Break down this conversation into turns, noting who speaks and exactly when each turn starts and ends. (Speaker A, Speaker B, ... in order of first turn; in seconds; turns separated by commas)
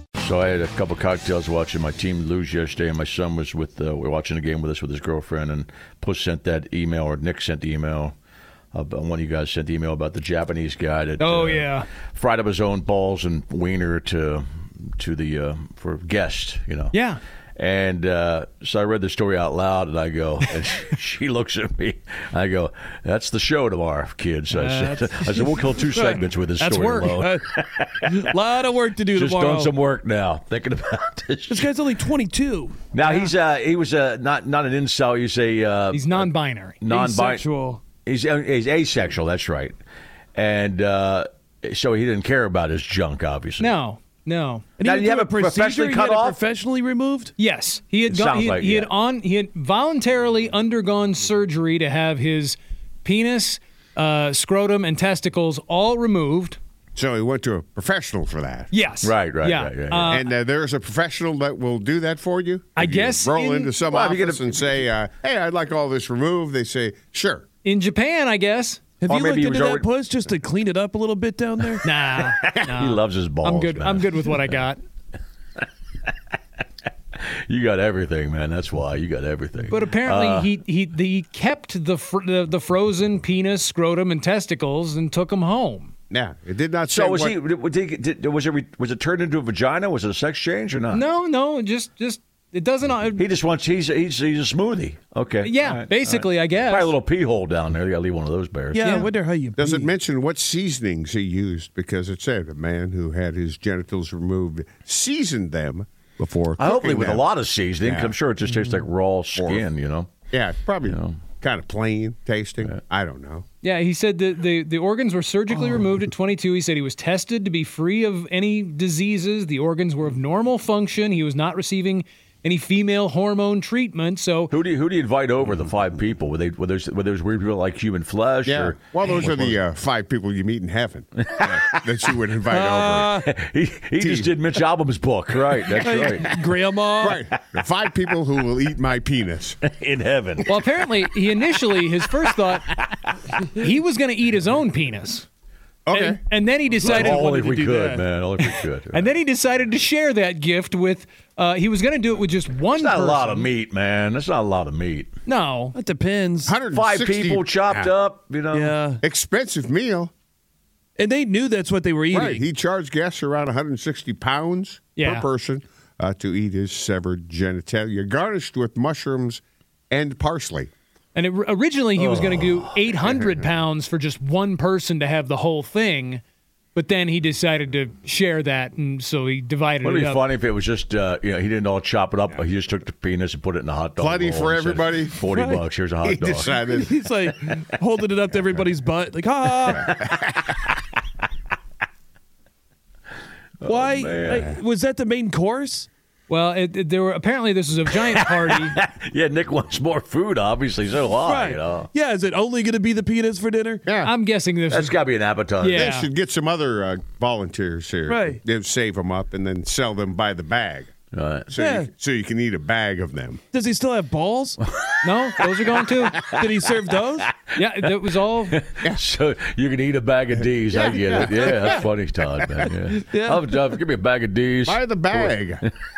Speaker A: 0.2-8.2, Speaker A: 8.7-17.0, Speaker B: 11.2-11.9, Speaker B: 16.9-17.2, Speaker A: 17.6-28.2, Speaker B: 24.5-25.4, Speaker C: 25.9-26.2, Speaker B: 26.6-27.2, Speaker C: 27.1-27.4, Speaker C: 28.0-29.7, Speaker A: 29.1-31.7, Speaker C: 31.5-32.8, Speaker A: 32.9-37.4, Speaker B: 33.0-33.3, Speaker B: 35.9-36.8, Speaker C: 36.9-37.8, Speaker A: 38.0-39.8, Speaker A: 40.4-43.8, Speaker B: 43.6-44.7, Speaker C: 44.8-47.3, Speaker A: 44.8-46.4, Speaker B: 47.4-56.6, Speaker A: 48.1-48.9, Speaker D: 57.0-58.7, Speaker B: 58.7-60.2, Speaker A: 59.0-60.2, Speaker D: 60.1-67.5, Speaker B: 62.8-63.7, Speaker A: 63.9-64.9, Speaker B: 67.6-68.8, Speaker C: 69.0-71.8, Speaker A: 69.1-69.9, Speaker B: 71.8-74.8, Speaker A: 72.4-74.5, Speaker A: 77.2-80.5, Speaker B: 79.7-85.9, Speaker D: 86.1-87.4, Speaker A: 86.9-91.0, Speaker B: 90.9-93.3, Speaker A: 93.2-99.1, Speaker B: 95.4-96.9, Speaker C: 98.7-99.9, Speaker B: 98.8-99.1, Speaker D: 99.5-107.3, Speaker A: 106.6-110.1, Speaker D: 107.8-108.2, Speaker D: 109.3-109.7, Speaker D: 110.3-113.5, Speaker A: 110.8-111.2, Speaker B: 113.6-124.5, Speaker A: 124.5-129.6, Speaker D: 128.4-133.2, Speaker A: 131.2-132.2, Speaker C: 132.5-133.3, Speaker A: 133.2-136.5, Speaker D: 134.0-134.4, Speaker C: 135.7-137.2, Speaker D: 137.0-139.6, Speaker A: 139.6-141.4, Speaker B: 140.5-142.7, Speaker B: 143.4-145.3, Speaker D: 145.9-146.2, Speaker B: 145.9-147.3, Speaker C: 146.8-148.1, Speaker A: 146.8-149.2, Speaker B: 148.9-153.5, Speaker A: 152.7-155.1, Speaker B: 155.3-155.8, Speaker C: 155.8-156.6, Speaker D: 156.4-157.9, Speaker A: 156.7-158.8, Speaker C: 158.5-159.0, Speaker D: 159.0-160.1, Speaker C: 161.0-162.4, Speaker D: 162.1-170.7, Speaker B: 165.0-165.3, Speaker B: 171.2-176.2, Speaker A: 172.0-172.6, Speaker D: 173.0-173.4, Speaker B: 176.8-180.3, Speaker A: 179.8-186.6, Speaker D: 184.0-185.2, Speaker C: 185.3-185.6, Speaker D: 186.0-187.0, Speaker C: 186.6-189.9, Speaker D: 189.7-189.9, Speaker A: 189.7-190.8, Speaker A: 193.6-194.6, Speaker C: 193.6-195.9, Speaker B: 196.3-198.8, Speaker A: 198.1-201.9, Speaker C: 201.2-203.8, Speaker D: 203.9-204.1, Speaker B: 204.0-205.0, Speaker A: 204.7-205.9, Speaker B: 205.6-206.1, Speaker D: 205.7-210.9, Speaker C: 208.1-208.4, Speaker A: 211.1-211.5, Speaker D: 211.5-213.4, Speaker C: 211.6-211.9, Speaker C: 213.5-214.6, Speaker A: 214.7-216.6, Speaker B: 215.0-216.2, Speaker C: 216.4-217.3, Speaker A: 217.2-217.9, Speaker B: 217.6-218.6, Speaker A: 218.4-225.7, Speaker D: 220.7-221.8, Speaker D: 222.4-222.7, Speaker C: 222.9-223.4, Speaker D: 224.7-225.7